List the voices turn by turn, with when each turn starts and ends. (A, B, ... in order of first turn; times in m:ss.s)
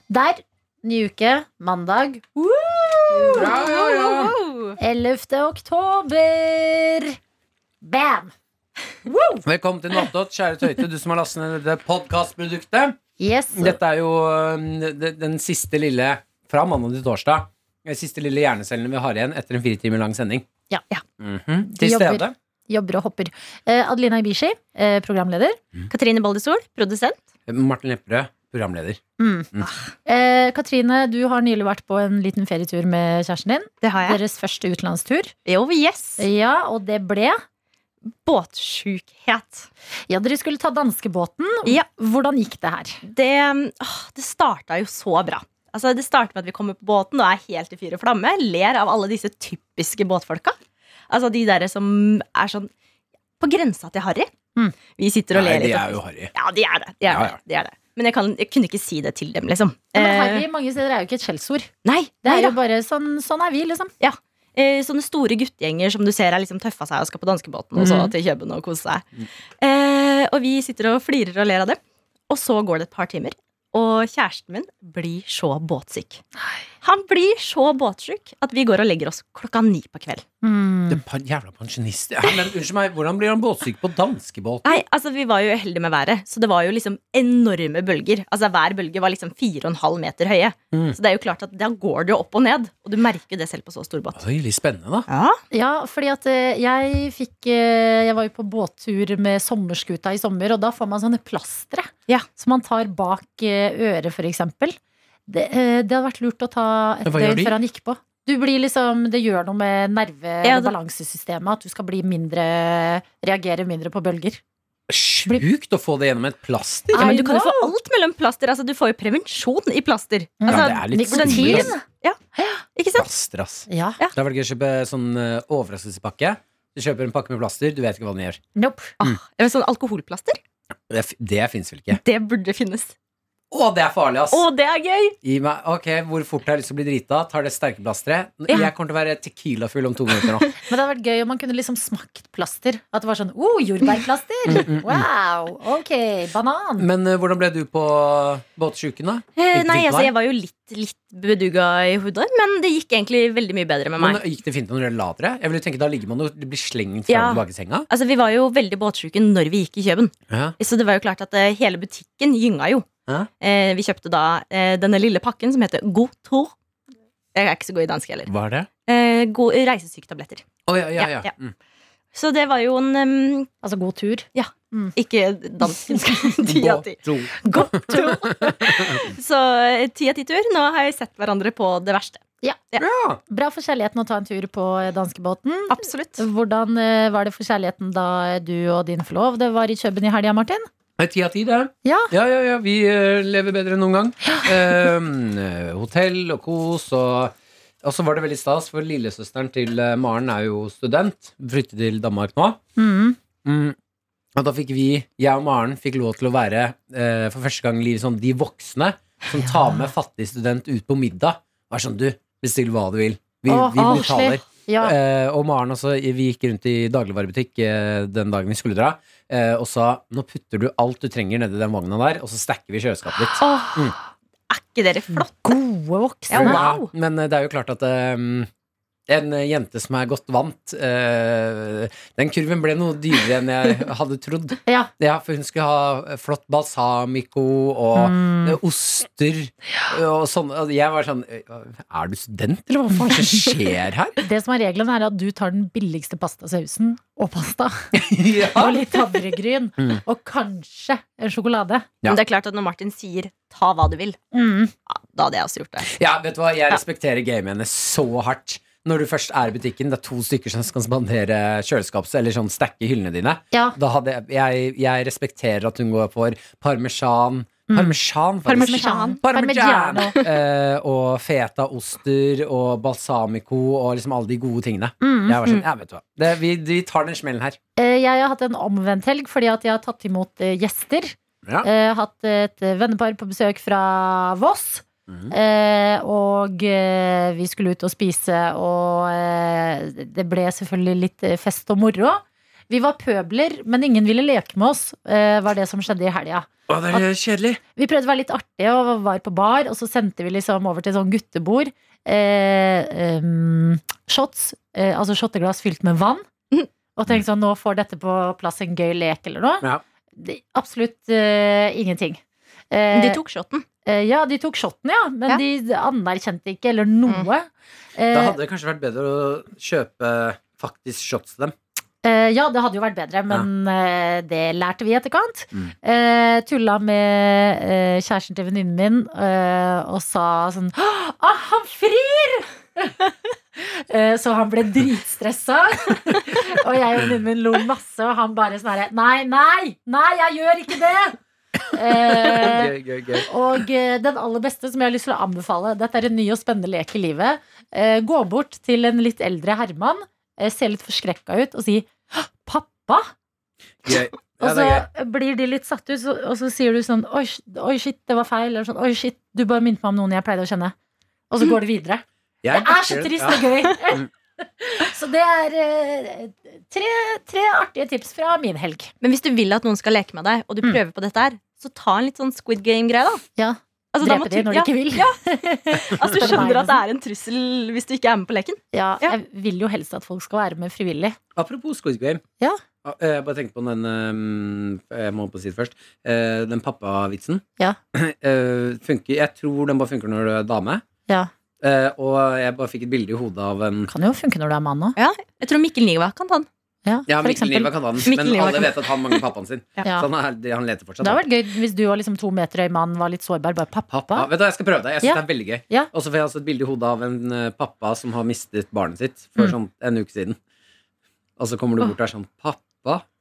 0:00.1-0:03.5 A
0:03.3-0:04.4 B
0:03.4-0:04.8 C
0:04.8-0:07.2 A
0:07.8-0:08.3 A
0:09.1-0:09.4 A
0:09.4-0:13.0 B
0:13.2-0:13.8 A
0:13.5-0:20.5 B
0:21.2-0:22.3 B
0:21.6-0:25.6 A
0:25.9-0:27.2 C
0:27.5-0:29.0 B
0:29.2-0:29.5 A
0:30.0-0:35.3 A
0:33.8-0:34.2 C
0:35.5-0:36.3 C
0:36.2-0:37.4 A
0:38.1-0:39.7 C
0:40.1-0:43.0 A
0:43.0-0:50.6 C
0:51.1-0:52.7 C
0:53.4-0:54.3 C
0:54.9-1:00.5 C
0:55.3-0:56.3 B
0:57.1-0:57.4 B
0:59.9-1:01.7 A
1:01.8-1:02.6 C
1:02.2-1:03.9 A
1:04.0-1:09.1 C
1:07.8-1:08.1 B
1:09.6-1:16.2 C
1:16.8-1:20.2 C
1:20.4-1:21.0 A
1:20.9-1:24.8 B
1:24.6-1:34.2 C
1:30.7-1:31.0 B
1:34.2-1:35.1 B
1:35.1-1:35.4 C
1:35.5-1:54.4 A
1:47.0-1:47.6 B
1:50.4-1:50.7 C
1:54.9-1:57.1 B
1:56.9-1:57.7 A
1:57.0-2:02.2 C
2:00.4-2:01.8 A
2:00.5-2:01.7 B
2:02.4-2:02.6 A
2:02.8-2:03.1 C
2:03.0-2:08.4 B
2:03.7-2:04.0 A
2:08.6-2:09.0 A
2:09.0-2:10.4 C
2:10.9-2:12.0 B
2:11.9-2:12.9 C
2:13.5-2:14.5 B
2:14.3-2:15.2 C
2:15.2-2:20.6 B
2:20.7-2:26.9 A
2:24.5-2:25.1 B
2:26.8-2:30.1 B
2:29.4-2:34.2 C
2:34.0-2:37.9 B
2:37.1-2:42.9 C
2:40.3-2:40.6 B
2:43.4-2:46.5 C
2:47.4-2:48.3 C
2:48.3-2:48.7 B
2:48.9-2:50.5 C
2:50.7-2:51.5 B
2:51.0-2:51.3 C
2:52.1-2:53.5 C
2:53.6-2:54.9 A
2:54.4-3:02.8 C
2:56.4-2:59.0 B
2:57.5-2:58.4 A
3:02.8-3:03.2 B
3:03.3-3:10.7 A
3:05.7-3:06.2 C
3:11.0-3:22.6 B
3:11.8-3:12.1 A
3:22.8-3:23.2 A
3:23.4-3:23.8 B
3:24.4-3:44.0 B
3:33.5-3:34.9 A
3:33.8-3:34.1 C
3:43.4-3:43.9 C
3:44.5-3:45.4 C
3:45.1-3:46.7 A
3:46.3-3:46.9 C
3:46.3-3:48.5 B
3:49.1-4:04.2 B
3:58.0-3:58.6 A
4:03.1-4:03.5 A
4:04.2-4:11.9 A
4:07.9-4:09.2 B
4:12.1-4:14.2 C
4:14.3-4:14.7 A
4:14.9-4:16.0 C
4:15.9-4:37.6 B
4:23.5-4:23.8 A
4:27.7-4:28.0 A
4:28.5-4:29.2 C
4:28.5-4:30.2 A
4:30.0-4:30.3 C
4:35.0-4:35.4 A
4:37.8-4:57.0 A
4:45.1-4:45.3 B
4:56.7-4:57.6 B
4:57.8-5:06.3 A
5:07.0-5:09.6 A
5:10.2-5:13.2 A
5:12.9-5:13.6 C
5:13.8-5:18.4 A
5:18.1-5:21.6 B
5:22.0-5:33.0 A
5:33.6-5:41.2 A
5:41.7-5:53.1 A
5:41.9-5:43.3 B
5:53.8-5:54.9 B
5:54.4-6:00.8 A
6:01.3-6:08.9 A
6:02.4-6:04.0 B
6:09.0-6:13.2 C
6:13.4-6:16.8 A
6:13.9-6:19.1 C
6:18.7-6:21.2 A
6:21.4-6:22.2 B
6:22.8-6:30.8 B
6:31.6-6:33.9 B
6:33.9-6:35.0 A
6:35.0-6:36.5 C
6:36.8-6:37.7 A
6:37.1-6:41.2 B
6:38.0-6:39.2 C
6:41.0-6:44.3 A
6:44.1-6:50.4 B
6:45.0-6:45.9 A
6:51.4-6:53.0 B